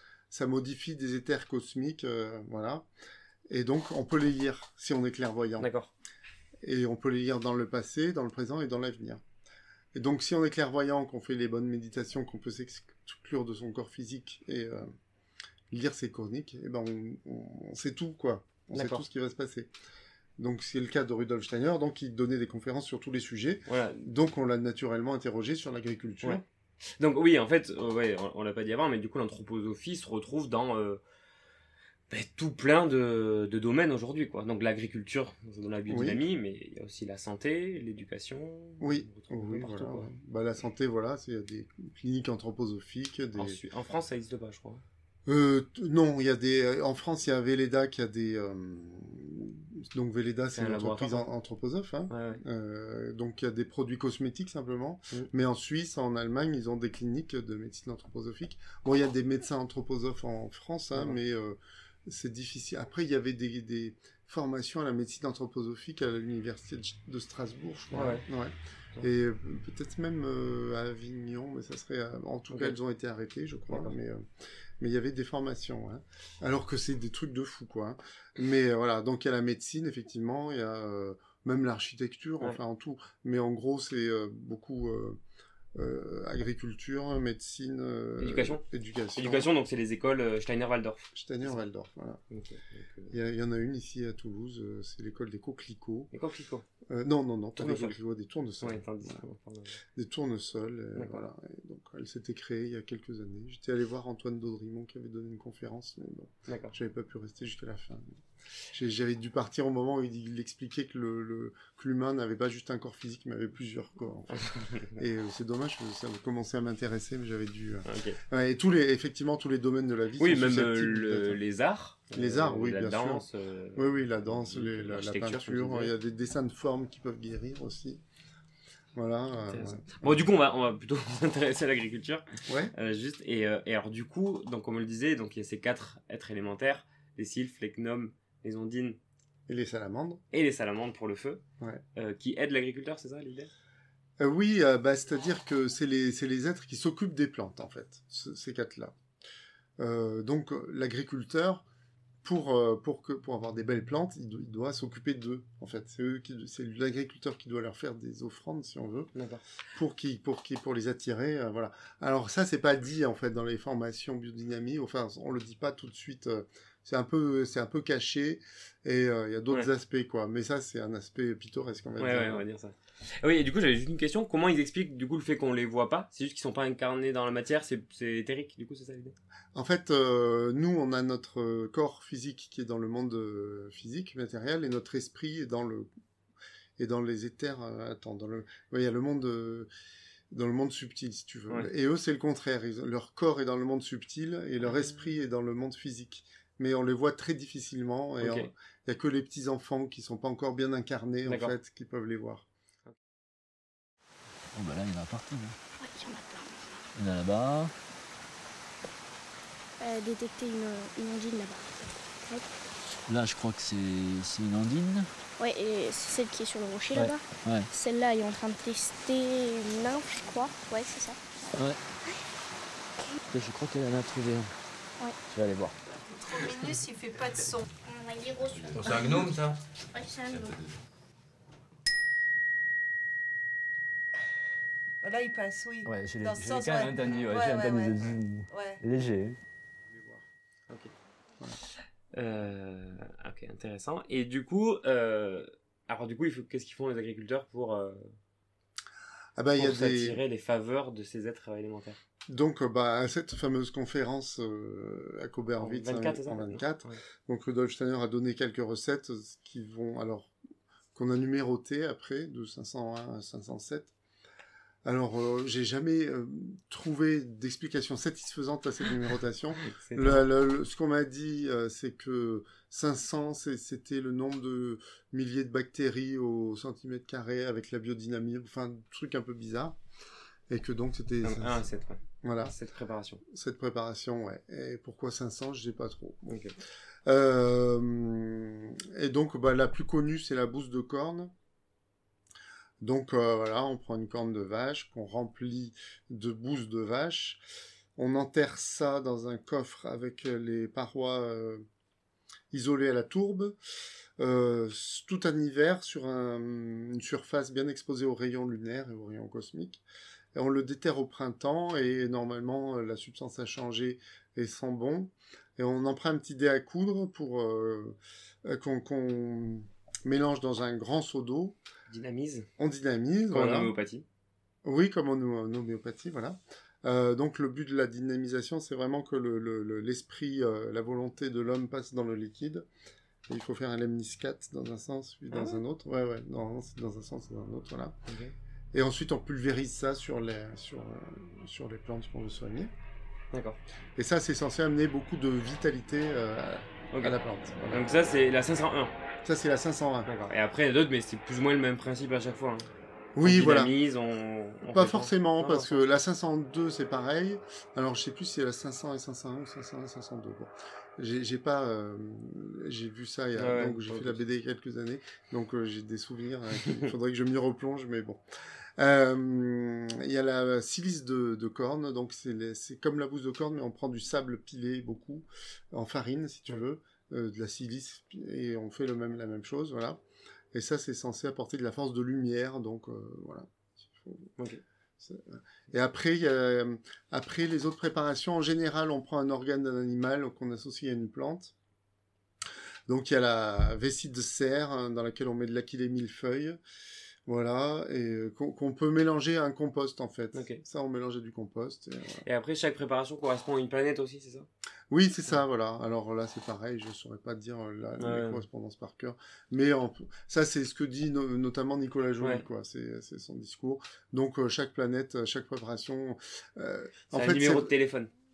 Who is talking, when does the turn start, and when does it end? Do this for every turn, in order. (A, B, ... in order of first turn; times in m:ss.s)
0:00.3-0:02.9 A
0:03.5-0:05.7 A
0:05.6-0:05.9 B
0:06.6-0:09.2 A
0:10.0-0:14.9 A
0:15.7-0:19.7 A
0:18.7-0:19.1 B
0:20.4-0:26.4 A
0:23.7-0:24.1 B
0:27.0-0:31.0 B
0:32.1-0:40.1 B
0:35.9-0:36.2 A
0:38.8-0:43.6 A
0:43.4-0:44.8 B
0:45.3-1:14.2 A
0:50.5-0:51.3 B
0:52.1-0:52.4 B
1:07.9-1:08.3 B
1:12.5-1:12.8 B
1:13.7-1:14.0 B
1:14.8-1:25.2 A
1:25.8-1:29.5 A
1:28.2-1:28.6 B
1:29.2-1:31.6 B
1:31.2-1:32.2 A
1:32.3-1:33.2 B
1:33.1-1:36.1 A
1:36.1-1:36.7 B
1:36.9-1:39.2 A
1:37.6-1:38.0 B
1:38.6-1:39.8 B
1:40.0-1:48.2 A
1:41.0-1:41.3 B
1:46.5-1:46.8 B
1:48.7-1:54.4 A
1:54.3-1:55.0 B
1:55.0-2:01.4 A
1:57.8-1:58.2 B
2:00.2-2:05.9 B
2:02.1-2:08.0 A
2:09.0-2:10.2 A
2:09.4-2:19.0 B
2:12.5-2:12.7 A
2:19.5-2:20.2 A
2:20.3-2:21.4 B
2:22.0-2:23.5 B
2:24.2-2:29.0 A
2:29.8-2:31.6 A
2:32.2-2:39.1 A
2:39.2-2:39.4 B
2:39.7-2:52.4 A
2:52.0-2:59.1 B
2:59.6-3:05.9 A
3:06.8-3:09.7 A
3:10.3-3:22.5 A
3:14.6-3:15.1 B
3:18.2-3:18.5 B
3:21.3-3:21.6 B
3:24.5-3:25.6 C
3:25.8-3:26.5 D
3:27.0-3:27.7 C
3:29.8-3:32.5 D
3:33.1-3:35.2 C
3:35.4-3:41.2 D
3:36.9-3:37.7 C
3:43.3-3:44.6 C
3:45.3-3:45.8 C
3:46.1-3:47.6 E
3:47.8-3:49.2 D
3:48.7-3:49.6 C
3:49.9-3:50.6 D
3:50.3-3:50.8 C
3:55.0-3:58.8 E
3:55.9-3:59.4 C
3:59.9-4:00.2 A
4:02.1-4:08.2 B
4:09.4-4:10.2 A
4:09.6-4:12.0 B
4:12.3-4:20.4 A
4:15.6-4:17.0 B
4:21.0-4:23.9 A
4:24.8-4:39.8 A
4:29.7-4:30.3 B
4:40.5-4:41.6 A
4:41.2-4:43.2 B
4:42.2-4:42.6 A
4:43.2-4:46.4 A
4:46.3-4:46.5 B
4:47.1-4:51.3 A
4:52.8-4:57.4 A
4:58.0-5:01.6 A
5:02.5-5:03.6 A
5:04.2-5:09.8 A
5:10.3-5:21.6 A
5:21.9-5:22.5 B
5:22.6-5:23.7 A
5:23.3-5:24.0 B
5:24.6-5:32.7 A
5:33.3-5:38.0 A
5:35.3-5:35.6 B
5:38.1-5:38.3 B
5:38.7-5:42.7 A
5:43.3-5:43.6 B
5:44.0-5:47.9 A
5:47.7-5:48.9 B
5:49.2-5:50.1 A
5:50.1-5:52.7 B
5:53.2-5:53.7 A
5:53.2-5:55.8 B
5:54.7-6:08.2 A
6:03.4-6:04.2 B
6:08.8-6:20.0 A
6:20.5-6:24.3 A
6:25.0-6:31.5 A
6:32.9-6:36.6 A
6:37.3-6:42.2 A
6:40.3-6:40.6 B
6:42.2-6:44.5 B
6:44.9-6:57.7 A
6:48.0-6:48.4 B
6:57.1-6:58.1 B